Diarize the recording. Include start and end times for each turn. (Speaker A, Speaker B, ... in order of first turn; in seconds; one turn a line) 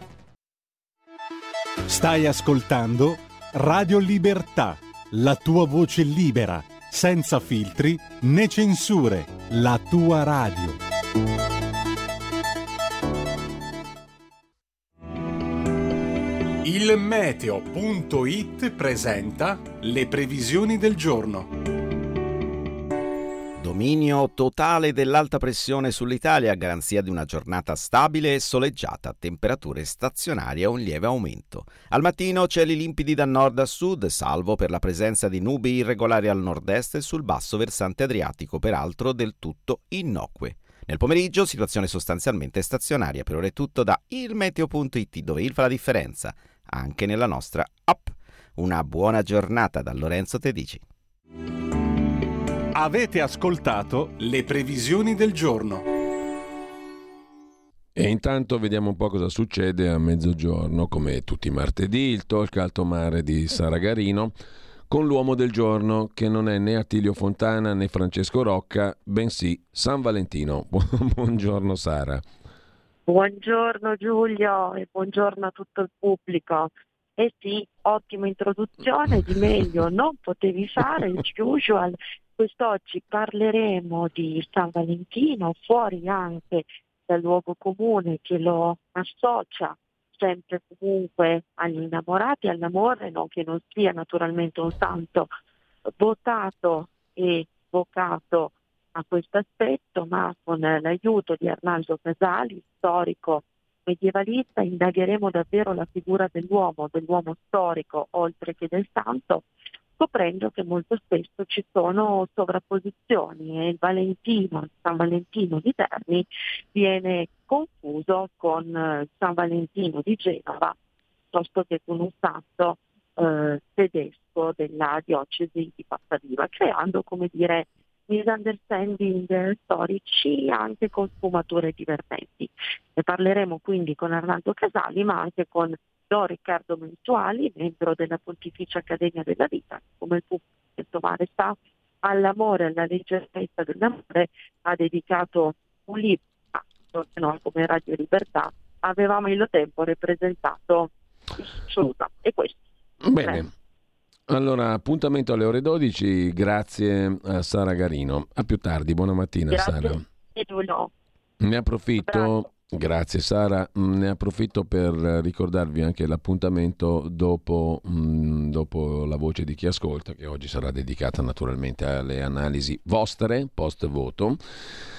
Speaker A: 1.9-10.8
Speaker A: 16.6-21.4
Speaker B: 23.6-50.8
Speaker A: 52.7-55.8
Speaker C: 57.9-64.3
Speaker C: 64.9-72.2
Speaker D: 73.1-95.3
Speaker D: 96.0-109.5
Speaker D: 110.0-120.7
Speaker D: 121.3-152.6
Speaker C: 153.0-153.5
Speaker C: 154.3-160.0
Speaker D: 159.5-160.9
Speaker C: 161.4-174.4
Speaker D: 162.1-162.3